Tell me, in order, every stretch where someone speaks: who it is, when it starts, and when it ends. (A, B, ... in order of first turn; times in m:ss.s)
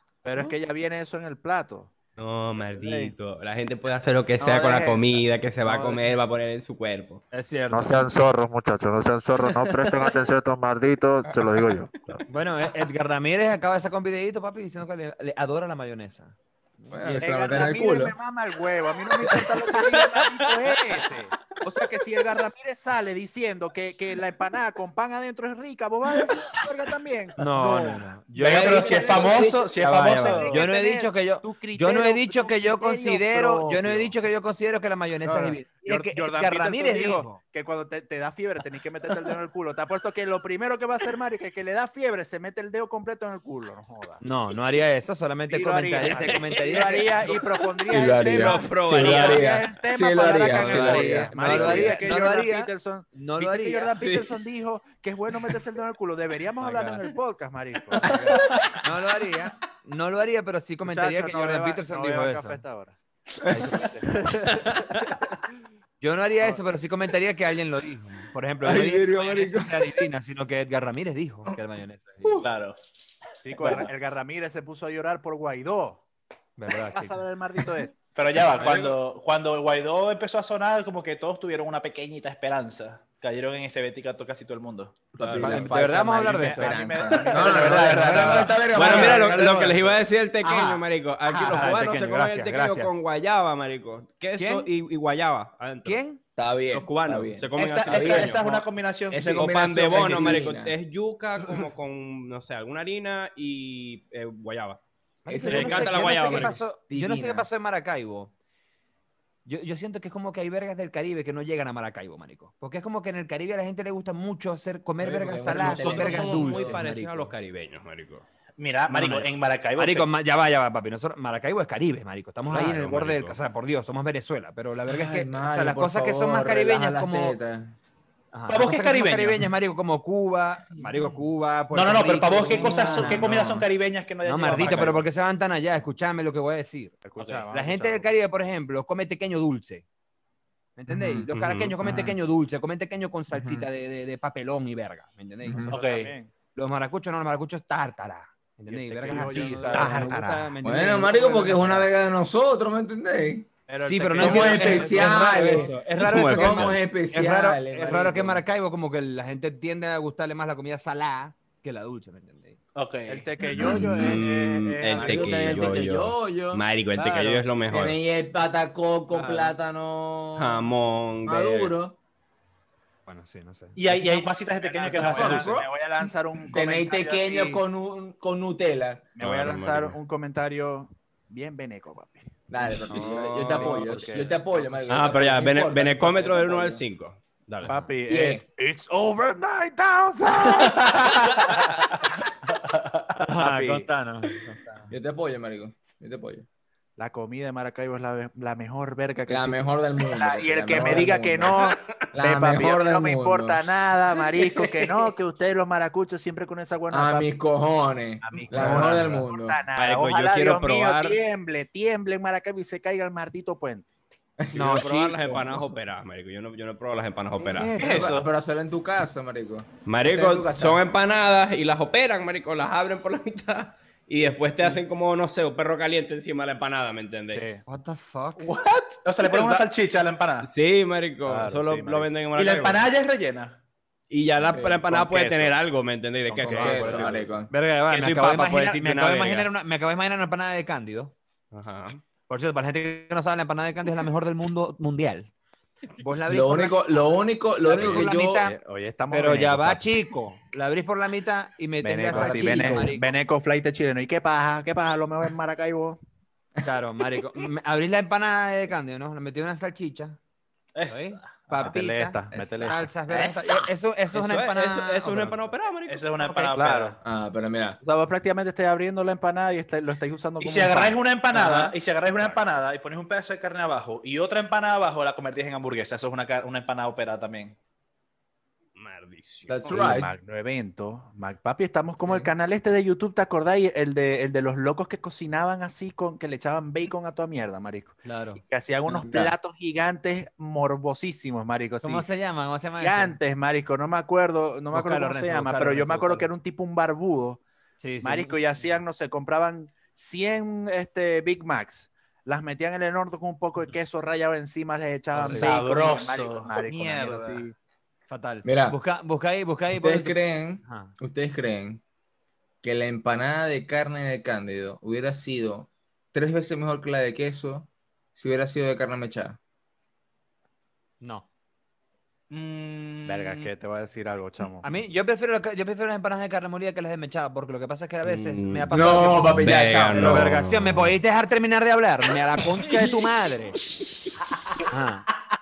0:00.2-0:01.9 A
0:02.2-0:07.2 B
0:02.7-0:03.1 A
0:04.4-0:06.0 A
0:07.3-0:08.1 C
0:07.7-0:12.2 A
0:11.3-0:11.5 D
0:12.3-0:17.7 C
0:16.9-0:18.2 D
0:17.2-0:34.2 A
0:27.4-0:37.4 C
0:28.4-0:30.6 E
0:28.4-0:29.7 D
0:35.2-0:44.2 A
0:44.2-0:47.3 C
0:45.5-0:58.5 A
0:46.1-0:47.5 B
0:47.9-0:52.0 D
0:48.2-0:49.6 B
0:50.5-0:53.9 C
0:53.9-0:54.4 B
0:56.6-0:57.0 C
0:58.0-0:58.4 D
0:58.0-1:02.6 C
1:00.8-1:05.0 A
1:03.5-1:03.7 D
1:06.0-1:12.4 C
1:08.6-1:10.0 D
1:12.4-1:12.8 E
1:13.4-1:16.0 A
1:13.6-1:13.9 E
1:16.6-1:17.2 C
1:16.7-1:17.9 A
1:18.2-1:25.0 E
1:18.5-1:19.0 B
1:25.1-1:29.8 D
1:25.2-1:25.7 B
1:25.4-1:26.8 C
1:26.4-1:30.0 A
1:26.6-1:28.7 E
1:28.7-1:36.0 B
1:31.5-1:33.0 C
1:34.4-1:34.7 C
1:35.8-1:36.2 C
1:36.4-1:40.8 D
1:36.7-1:38.6 B
1:37.6-1:40.2 E
1:39.3-1:44.8 B
1:45.3-1:48.3 C
1:45.3-1:47.5 D
1:45.4-1:46.7 B
1:49.5-1:57.3 C
1:55.0-1:56.8 D
1:55.5-1:58.2 B
1:58.6-2:00.1 E
1:58.9-2:07.4 C
2:02.5-2:03.4 B
2:04.9-2:07.8 D
2:08.3-2:13.4 C
2:08.5-2:09.5 E
2:11.7-2:15.0 E
2:12.5-2:13.5 D
2:14.2-2:17.0 C
2:17.0-2:18.1 A
2:17.2-2:17.4 E
2:17.5-2:19.8 C
2:20.8-2:25.7 C
2:20.9-2:21.3 D
2:21.3-2:21.8 B
2:21.8-2:22.2 D
2:23.3-2:23.7 D
2:25.4-2:25.8 D
2:25.7-2:26.3 A
2:25.7-2:26.1 E
2:26.6-2:31.9 C
2:28.7-2:30.5 A
2:30.6-2:33.5 D
2:33.7-2:35.8 A
2:33.8-2:42.6 C
2:34.2-2:38.4 D
2:35.9-2:36.8 B
2:42.8-2:43.3 E
2:43.1-2:45.8 A
2:43.6-2:48.0 B
2:43.6-2:44.1 D
2:44.9-2:46.6 D
2:47.0-2:47.5 A
2:47.7-2:50.7 D
2:49.1-2:49.6 A
2:50.4-2:51.7 B
2:51.2-2:52.0 D
2:53.1-2:53.8 C
2:53.8-2:55.6 E
2:53.9-2:57.6 A
2:55.1-2:55.6 D
2:56.5-2:59.1 D
2:59.2-3:02.3 A
2:59.2-3:00.0 B
3:02.5-3:06.8 D
3:02.9-3:04.7 A
3:03.0-3:04.2 C
3:03.1-3:03.6 B
3:04.9-3:07.8 B
3:07.6-3:11.9 A
3:08.1-3:08.4 D
3:13.2-3:13.9 A
3:13.2-3:14.9 C
3:14.9-3:16.5 D
3:17.0-3:27.3 A
3:19.3-3:23.7 D
3:24.2-3:25.1 D
3:26.9-3:29.6 D
3:28.2-3:33.9 A
3:29.8-3:31.2 B
3:34.4-3:34.7 D
3:34.5-3:35.6 C
3:34.6-3:37.8 B
3:37.4-3:38.1 C
3:37.8-3:40.8 D
3:37.8-3:38.3 E
3:39.9-3:47.4 B
3:47.3-3:47.6 A
3:47.7-3:48.6 C
3:48.4-3:50.5 E
3:49.2-3:49.6 A
3:50.4-3:52.9 B
3:51.2-3:52.1 A
3:52.4-3:53.6 E
3:54.1-3:57.3 B
3:54.4-3:55.1 D
3:55.0-3:55.6 A
3:56.3-3:57.2 A
3:56.4-3:57.5 D
3:57.5-4:01.1 C
3:57.9-3:59.5 B
4:01.5-4:02.0 B
4:02.3-4:05.3 C
4:06.0-4:06.8 C
4:06.3-4:08.4 D
4:07.6-4:08.5 C
4:07.7-4:09.9 A
4:09.1-4:13.2 C
4:11.8-4:16.0 A
4:12.1-4:12.9 D
4:16.6-4:20.2 C
4:20.8-4:21.3 E
4:20.9-4:25.4 C
4:21.5-4:22.9 A
4:22.3-4:23.7 D
4:24.1-4:26.3 B
4:25.9-4:27.0 E
4:26.2-4:26.6 C
4:26.6-4:27.0 A
4:27.0-4:27.8 D
4:27.8-4:31.7 A
4:30.4-4:37.6 E
4:38.8-4:39.8 B
4:39.5-4:40.1 D
4:39.7-4:52.1 A
4:48.0-4:48.4 C
4:48.9-4:49.3 D
4:51.8-4:53.2 C
4:52.8-4:57.4 A
4:54.7-4:56.3 C
4:57.8-4:58.4 C
4:58.0-5:07.6 A
5:05.2-5:05.5 C
5:05.2-5:07.4 E
5:08.1-5:11.0 C
5:08.4-5:08.8 D
5:09.7-5:11.8 D
5:12.6-5:19.4 D
5:21.0-5:21.3 C
5:22.3-5:23.5 E
5:23.1-5:24.8 A
5:24.6-5:33.6 C
5:28.0-5:28.7 B
5:28.7-5:30.3 D
5:29.3-5:31.0 B
5:34.7-5:35.1 C